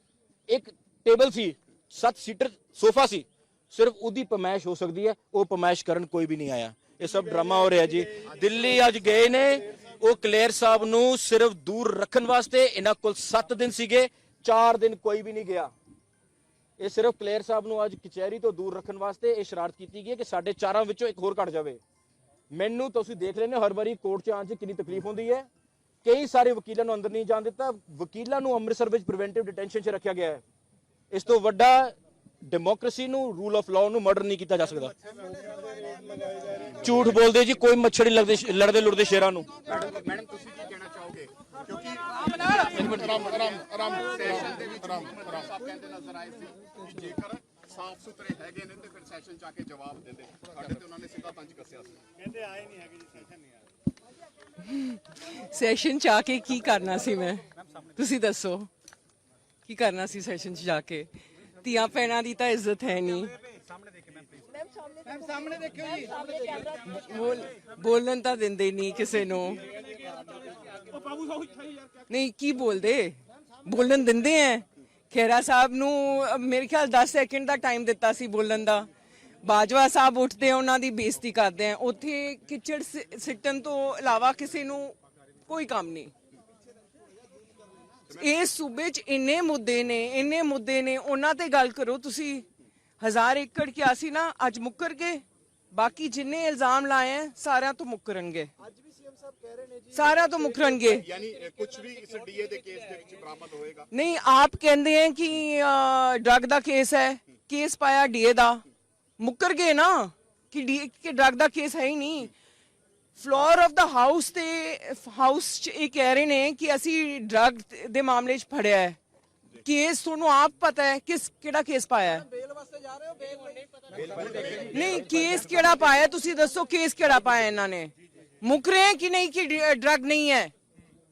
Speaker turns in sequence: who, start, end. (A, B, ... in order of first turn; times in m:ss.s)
0:00.5-0:15.7 A
0:16.8-0:21.8 A
0:22.5-0:25.5 A
0:26.0-0:30.4 A
0:31.1-0:34.9 A
0:36.8-0:39.5 A
0:39.7-0:52.0 B
0:54.6-0:57.4 C
0:58.0-0:58.7 C
0:59.7-1:01.1 C
1:01.6-1:03.4 C
1:04.6-1:09.6 C
1:12.1-1:18.9 C
1:19.4-1:24.9 C
1:25.4-1:26.1 C
1:28.1-1:32.4 C
1:33.0-1:38.5 C
1:39.9-1:41.1 C
1:41.0-1:43.9 B
1:43.9-1:48.6 C
1:49.2-1:52.3 C
1:53.2-1:59.0 C
1:59.6-2:02.3 C
2:04.1-2:04.7 A
2:04.6-2:10.5 C